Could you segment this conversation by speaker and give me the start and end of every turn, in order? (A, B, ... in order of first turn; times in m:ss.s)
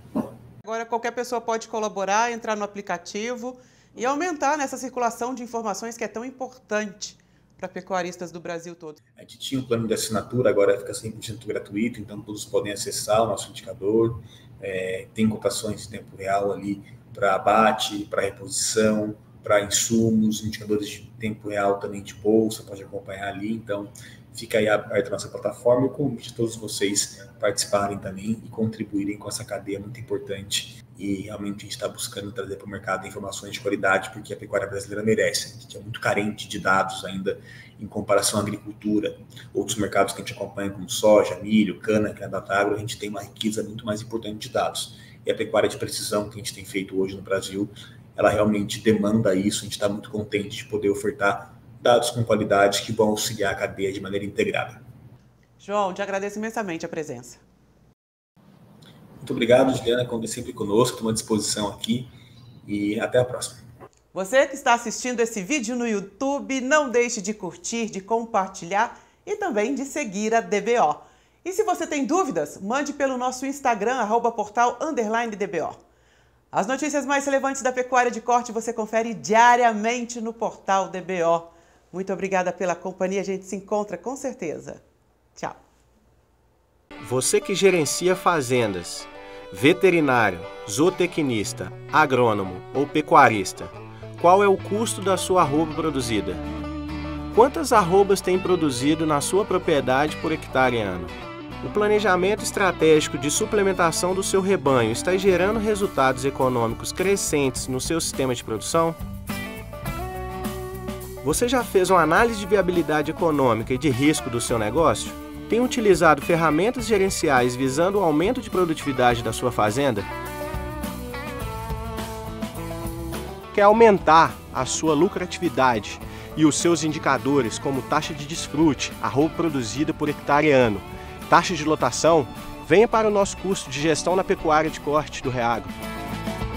0:00.6-0:09.0 A
0:09.2-0:54.8 B
0:55.6-0:57.4 A
0:59.2-1:02.1 B
1:02.7-1:03.6 B
1:04.1-1:15.8 A
1:16.5-1:24.8 A
1:25.4-1:25.6 A
1:27.0-1:36.4 C
1:37.3-1:49.0 C
1:51.2-2:00.1 C
2:03.5-2:15.7 C